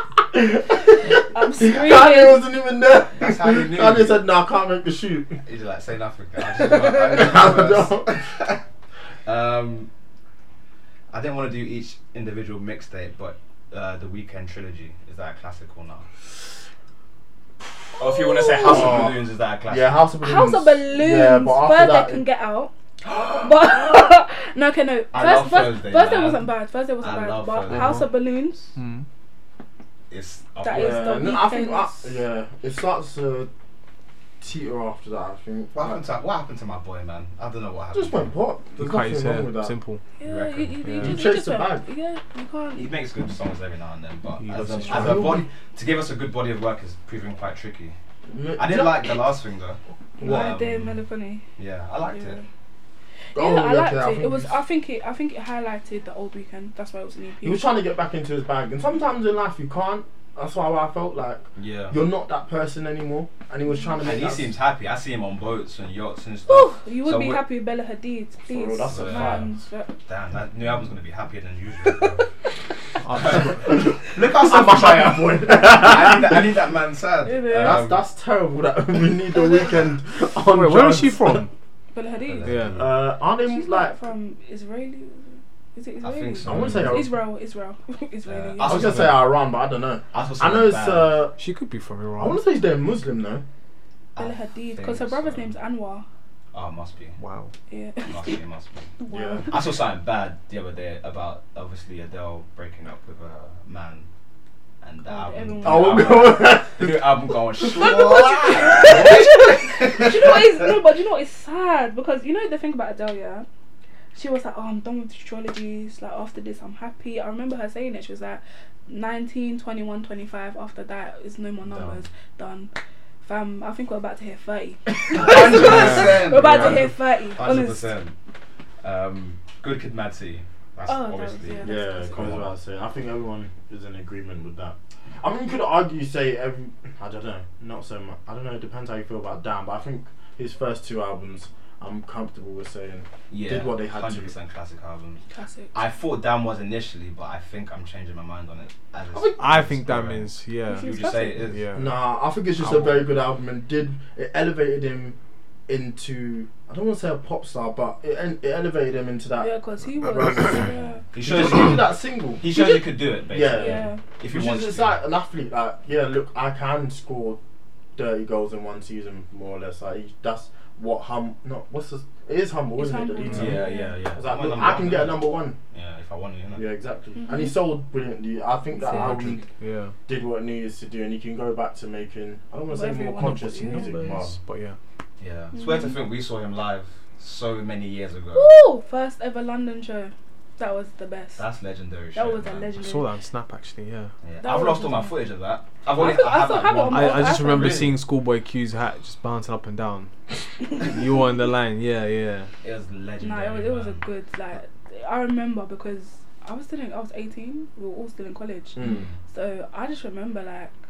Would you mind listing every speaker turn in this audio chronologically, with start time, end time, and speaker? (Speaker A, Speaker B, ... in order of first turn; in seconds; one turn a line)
Speaker A: 0.3-5.4
Speaker B: 1.3-2.4
Speaker C: 3.2-4.2
Speaker C: 5.4-8.6
Speaker A: 6.6-8.3
Speaker C: 9.2-9.9
Speaker C: 11.1-16.1
Speaker C: 18.0-20.0
Speaker B: 18.0-19.1
Speaker A: 18.6-19.1
Speaker A: 19.7-22.2
Speaker B: 20.2-28.7
Speaker C: 25.1-28.0
Speaker D: 27.7-28.1
Speaker D: 28.8-29.1
Speaker C: 30.1-31.3
Speaker B: 30.6-32.1
Speaker A: 30.7-33.5
Speaker A: 34.4-36.0
Speaker C: 35.7-38.3
Speaker A: 37.9-39.8
Speaker D: 38.8-40.0
Speaker B: 40.2-42.9
Speaker C: 40.2-40.8
Speaker D: 40.8-41.2
Speaker A: 41.0-41.8
Speaker C: 42.7-48.0
Speaker D: 44.4-45.4
Speaker A: 44.9-45.5
Speaker A: 48.3-49.2
Speaker C: 48.6-51.0
Speaker A: 50.2-50.5
Speaker B: 50.2-51.5
Speaker C: 51.5-52.4
Speaker B: 52.1-52.5
Speaker B: 53.3-57.7
Speaker A: 53.3-54.5
Speaker A: 57.4-64.5
Speaker C: 61.5-62.0
Speaker C: 64.0-67.4
Speaker B: 66.5-69.9
Speaker A: 68.5-69.5
Speaker C: 68.8-69.4
Speaker C: 70.1-72.2
Speaker D: 73.0-73.8
Speaker C: 73.1-78.0
Speaker A: 73.3-76.6
Speaker B: 77.2-77.9
Speaker A: 77.5-81.5
Speaker B: 79.3-79.7
Speaker D: 80.4-81.5
Speaker B: 81.9-82.6
Speaker C: 82.2-83.0
Speaker D: 82.4-82.8
Speaker A: 82.7-84.0
Speaker B: 83.4-89.0
Speaker C: 86.0-87.0
Speaker A: 86.4-87.1
Speaker C: 88.2-89.1
Speaker A: 88.6-91.4
Speaker D: 88.7-89.1
Speaker C: 90.1-91.2
Speaker D: 91.4-92.4
Speaker A: 92.2-93.4
Speaker C: 94.1-95.5
Speaker B: 94.2-96.0
Speaker C: 96.5-97.2
Speaker D: 97.2-97.5
Speaker B: 97.7-98.4
Speaker C: 98.0-98.9
Speaker B: 99.0-99.5
Speaker A: 99.1-99.5
Speaker C: 99.5-104.1
Speaker C: 104.8-110.7
Speaker B: 105.0-106.4
Speaker A: 105.6-107.2
Speaker B: 107.6-113.5
Speaker B: 114.1-122.7
Speaker B: 123.2-127.9
Speaker C: 125.0-128.2
Speaker A: 125.4-125.7
Speaker D: 125.6-126.2
Speaker A: 126.4-126.9
Speaker C: 128.8-132.5
Speaker B: 130.8-132.4
Speaker A: 131.6-144.3
Speaker C: 143.3-145.2
Speaker B: 145.3-145.7
Speaker C: 145.7-151.6
Speaker A: 149.1-149.6
Speaker D: 149.4-151.9
Speaker B: 150.7-151.4
Speaker A: 151.7-155.2
Speaker C: 152.6-153.0
Speaker A: 155.7-159.5
Speaker B: 159.4-161.0
Speaker A: 160.2-162.4
Speaker C: 160.6-165.0
Speaker B: 162.5-162.9
Speaker A: 163.3-167.4
Speaker B: 163.5-164.0
Speaker A: 167.9-175.6
Speaker B: 172.7-174.0
Speaker C: 173.3-176.6
Speaker A: 176.5-179.4
Speaker B: 177.2-177.6
Speaker B: 178.7-179.4
Speaker D: 178.9-179.9
Speaker C: 179.1-179.4
Speaker A: 180.1-184.4
Speaker B: 182.7-184.0
Speaker D: 183.1-184.8
Speaker C: 185.2-188.5
Speaker B: 185.5-186.0
Speaker B: 188.3-191.4
Speaker C: 191.4-192.7
Speaker B: 192.1-193.1
Speaker D: 192.8-194.1
Speaker C: 194.2-198.0
Speaker B: 194.4-195.2
Speaker B: 195.9-197.9
Speaker D: 196.9-202.5
Speaker C: 202.6-204.0
Speaker B: 203.2-210.7
Speaker A: 208.8-209.1
Speaker C: 208.8-209.1